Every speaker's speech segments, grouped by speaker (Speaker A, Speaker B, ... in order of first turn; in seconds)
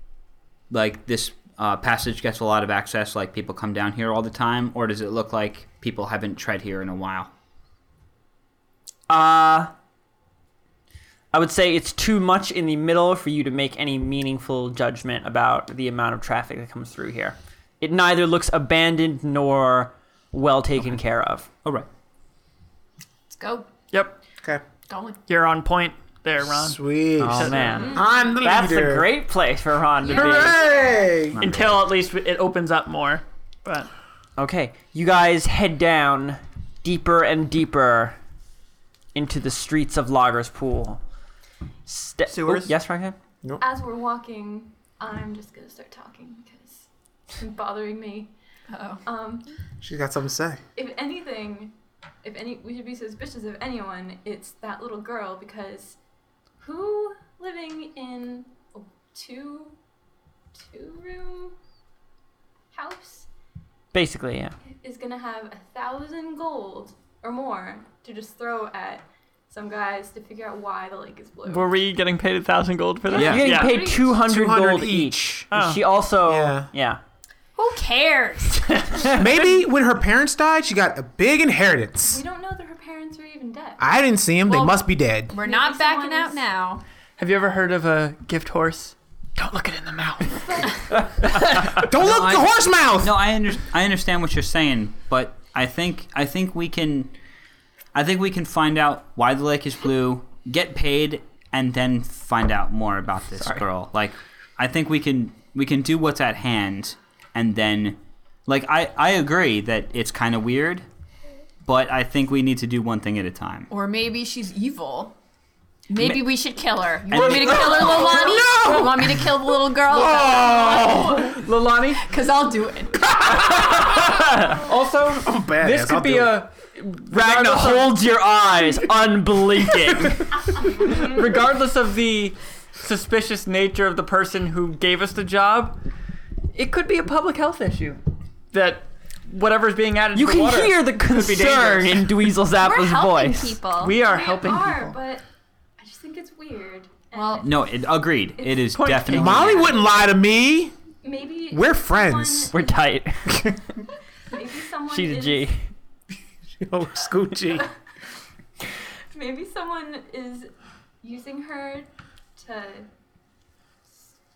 Speaker A: 0.7-7.3, 31.4-31.9, 73.1-73.5, 92.0-97.1, 97.9-110.8, 111.7-113.7, 117.1-118.1, 147.4-149.8
Speaker B: 9.1-9.7, 11.3-21.5, 27.2-30.6, 34.4-38.2, 39.1-41.0, 41.9-43.1, 63.9-64.5, 73.2-77.0, 127.1-130.3, 140.1-143.6, 152.5-153.4, 154.9-155.6
Speaker C: 23.3-23.7, 24.9-25.2, 30.1-31.1, 48.7-49.0, 77.6-79.2, 84.5-86.8, 113.7-115.1, 115.9-121.4, 122.0-124.0, 142.6-144.0, 147.1-147.5
Speaker D: 23.9-24.2, 25.3-28.0, 31.4-33.9, 42.3-42.8, 71.5-73.8, 75.5-75.8, 87.2-91.9, 121.3-122.0, 124.2-128.1, 130.7-135.8, 136.5-138.0, 138.5-142.3, 143.8-145.0, 148.7-149.5
Speaker E: 26.6-29.1, 30.1-31.4, 49.8-50.6, 74.2-75.5, 76.2-76.7, 79.1-82.2, 83.8-85.3, 91.8-93.2, 117.1-121.3, 123.2-123.8, 125.2-126.5, 149.1-150.8, 151.5-152.5, 156.6-157.7
Speaker F: 27.8-28.2, 43.6-48.3, 49.0-49.5, 50.8-56.0, 56.6-59.8, 60.5-61.5, 62.7-63.3, 64.7-71.8, 73.1-74.2, 82.0-83.8, 85.4-86.5, 90.3-91.2, 143.8-145.2, 145.8-147.6, 148.4-148.9, 151.0-152.8, 154.3-155.5, 159.1-160.5, 161.0-162.9